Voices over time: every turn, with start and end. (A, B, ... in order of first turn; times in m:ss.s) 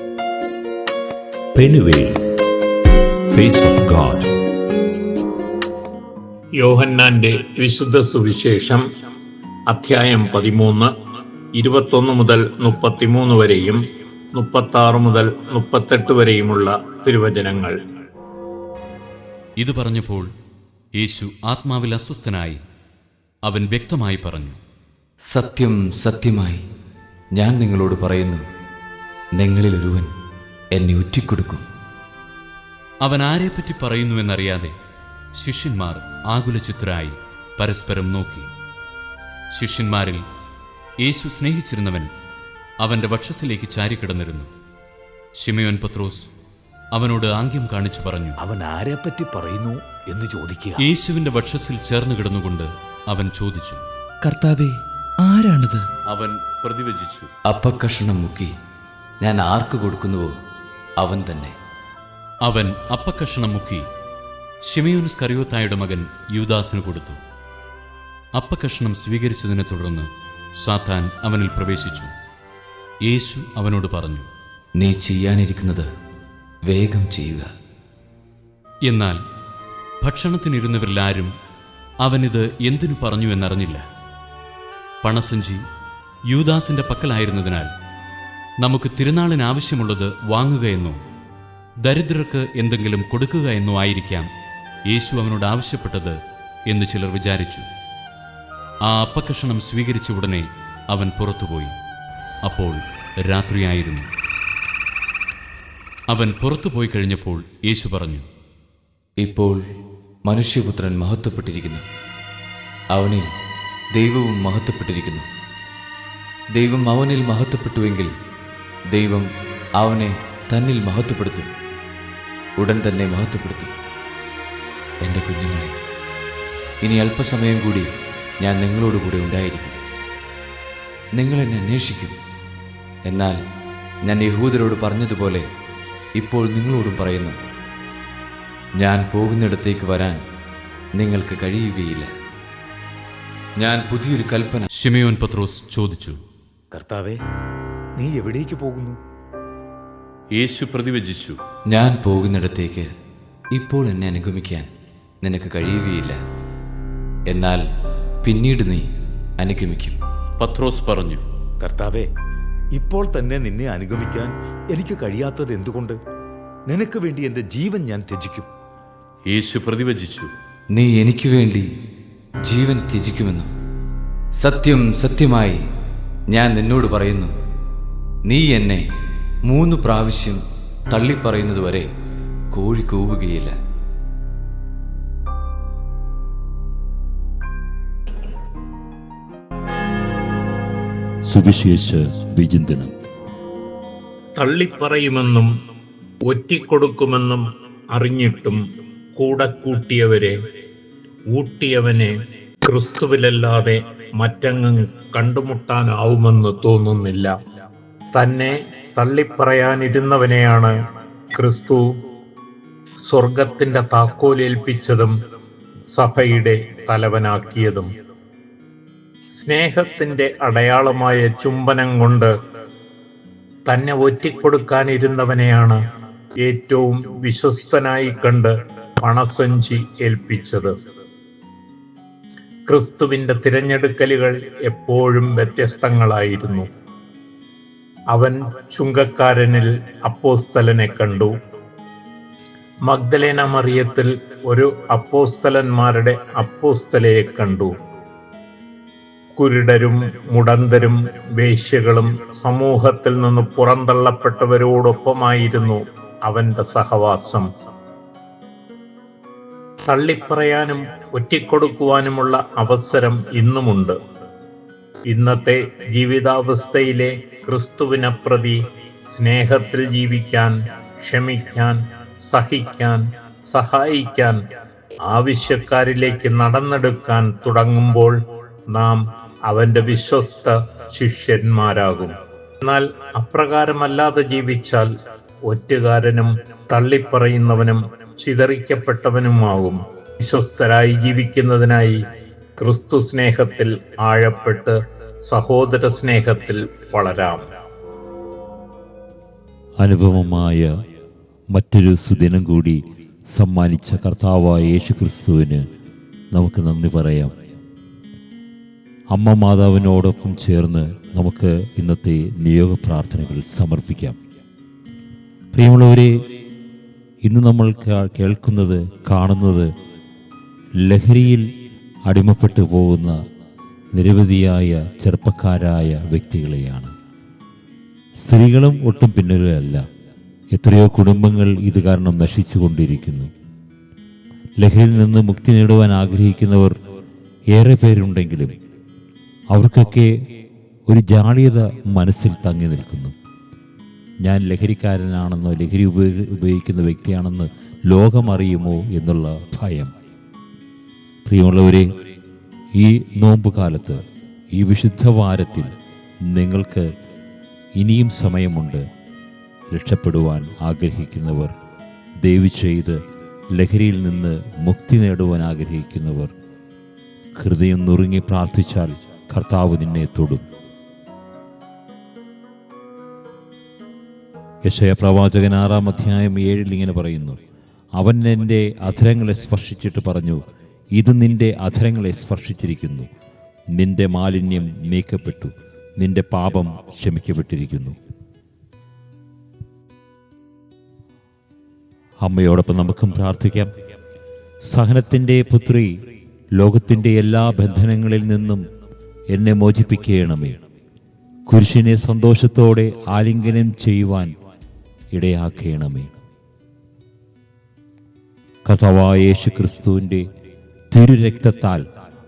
0:01.5-0:02.2 A
0:03.3-0:04.3 A
0:06.6-0:08.8 B
0:09.7-0:10.9 B
0:11.5-0:13.8 B
0:14.3-0:17.7 B
0:19.6-0:20.3 C
0:21.0-0:22.6 C
0:23.4-0:24.6 C
0:25.3-0:26.6 D
0:27.3-0:28.4 D
0:29.3-0:30.1 D
0:30.7-0:31.6 D
0:33.0-0:34.7 C
0:35.4-0:38.5 C
0:39.5-0:40.2 C
0:41.0-0:42.1 C
0:42.8-0:44.5 C
0:45.4-0:46.3 C
0:46.9-0:48.4 C
0:48.4-0:50.8 E
0:50.8-0:53.8 C
0:54.2-0:55.9 E
0:56.1-0:57.3 C
0:57.4-0:58.5 D
0:59.2-1:00.4 D
1:01.0-1:01.6 D
1:02.4-1:03.8 C
1:04.7-1:07.2 C
1:08.3-1:10.1 C
1:10.6-1:12.1 C
1:13.0-1:14.3 C
1:14.8-1:15.9 D
1:16.6-1:17.5 D
1:18.8-1:19.2 C
1:20.0-1:21.3 C
1:22.0-1:23.8 C
1:25.0-1:25.6 C
1:26.3-1:27.7 C
1:28.6-1:31.0 C
1:31.8-1:34.3 C
1:34.9-1:36.2 C
1:36.7-1:37.6 C
1:38.8-1:41.7 C
1:42.4-1:44.1 C
1:46.1-1:48.2 C
1:49.2-1:49.6 D
1:50.2-1:51.8 D
1:52.9-1:53.3 D
1:53.9-1:55.3 D
1:56.5-1:58.1 D
1:58.9-2:01.5 D
2:02.6-2:03.7 D
2:05.0-2:05.7 D
2:06.8-2:09.8 D
2:11.1-2:12.2 D
2:13.0-2:13.4 D
2:14.0-2:15.4 D
2:16.2-2:17.4 D
2:18.8-2:20.2 D
2:20.9-2:22.1 D
2:23.6-2:24.7 D
2:24.7-2:26.2 C
2:26.7-2:27.2 E
2:28.0-2:29.0 E
2:30.3-2:31.4 C
2:31.7-2:32.9 D
2:33.5-2:34.7 D
2:35.2-2:36.2 D
2:37.3-2:37.6 D
2:38.2-2:38.9 D
2:39.4-2:40.0 D
2:40.4-2:41.2 C
2:41.6-2:42.1 E
2:42.7-2:46.0 E
2:46.7-2:48.5 E
2:49.3-2:50.3 C
2:50.7-2:51.7 D
2:52.4-2:53.5 D
2:54.4-2:55.6 D
2:56.3-2:57.3 D
2:58.2-2:58.9 D
2:59.4-3:01.9 D
3:02.5-3:03.5 D
3:11.3-3:12.9 A
3:14.4-3:15.5 B
3:16.2-3:18.6 B
3:19.1-3:20.4 B
3:21.3-3:22.1 B
3:22.6-3:27.3 B
3:28.1-3:30.7 B
3:31.3-3:31.9 B
3:33.1-3:35.1 B
3:35.9-3:37.9 B
3:39.3-3:42.3 B
3:43.7-3:45.8 B
3:46.4-3:50.7 B
3:52.7-3:56.7 B
3:58.1-4:01.4 B
4:02.8-4:07.7 B
4:09.4-4:17.5 B
4:19.9-4:24.0 B
4:25.1-4:34.4 B
4:35.1-4:38.1 B
4:38.7-4:44.9 B
4:45.4-4:52.0 B
4:52.6-4:57.4 B
4:59.8-5:00.7 A
5:01.5-5:05.6 A
5:06.3-5:07.3 A
5:09.1-5:14.2 A
5:15.5-5:16.2 A
5:17.2-5:19.7 A
5:20.8-5:21.5 A
5:22.0-5:23.2 A
5:23.9-5:26.9 A
5:28.2-5:29.8 A
5:30.5-5:33.3 A
5:34.6-5:36.8 A
5:37.5-5:38.6 A
5:39.5-5:40.2 A
5:40.9-5:43.1 A
5:44.2-5:49.9 A
5:51.2-5:52.0 A
5:52.7-5:56.9 A
5:57.8-5:58.8 A
5:59.7-6:01.5 A
6:02.2-6:03.0 A
6:03.5-6:06.3 A
6:07.4-6:10.5 A
6:14.6-6:17.4 A
6:18.0-6:20.4 A
6:20.9-6:23.1 A
6:23.7-6:28.0 A
6:32.2-6:33.7 A
6:34.6-6:36.0 A
6:36.6-6:38.6 A
6:39.3-6:40.6 A
6:41.5-6:44.3 A
6:45.1-6:46.1 A
6:48.6-6:50.3 A
6:50.9-6:51.8 A